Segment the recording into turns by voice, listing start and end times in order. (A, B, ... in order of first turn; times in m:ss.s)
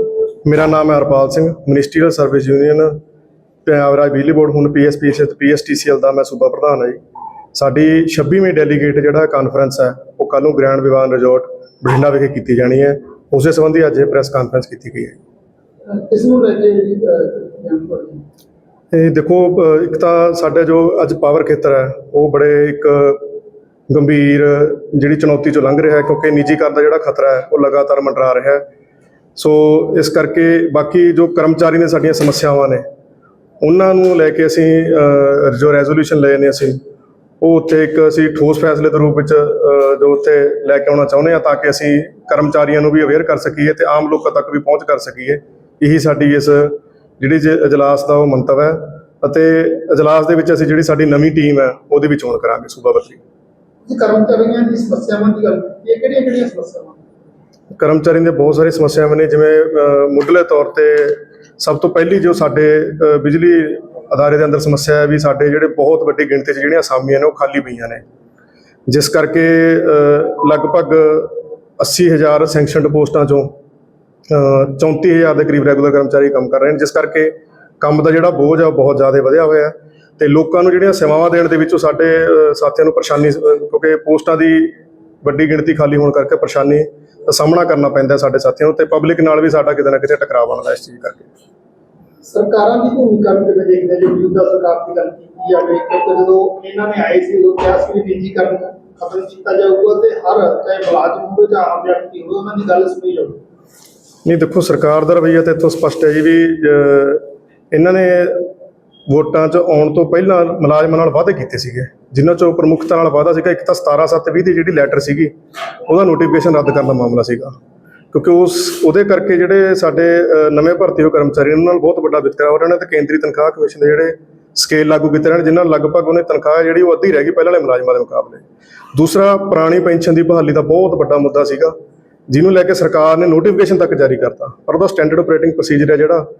0:00.4-0:03.0 A
0:03.6-0:07.0 A
0:07.5-0:15.2 A
0:15.9-0:18.2 B
0:18.9-0:23.3 A
0:23.9-0:28.6 A
0:29.4-0:32.8 A
0:33.6-0:36.8 A
0:37.4-0:53.2 A
0:53.8-0:57.0 B
0:57.8-1:08.0 A
1:08.9-1:13.5 A
1:14.3-1:31.3 A
1:32.2-1:43.4 B
1:44.2-1:48.5 A
1:49.1-1:55.3 A
1:55.9-1:57.5 A
1:58.1-2:11.7 A
2:12.3-2:16.2 A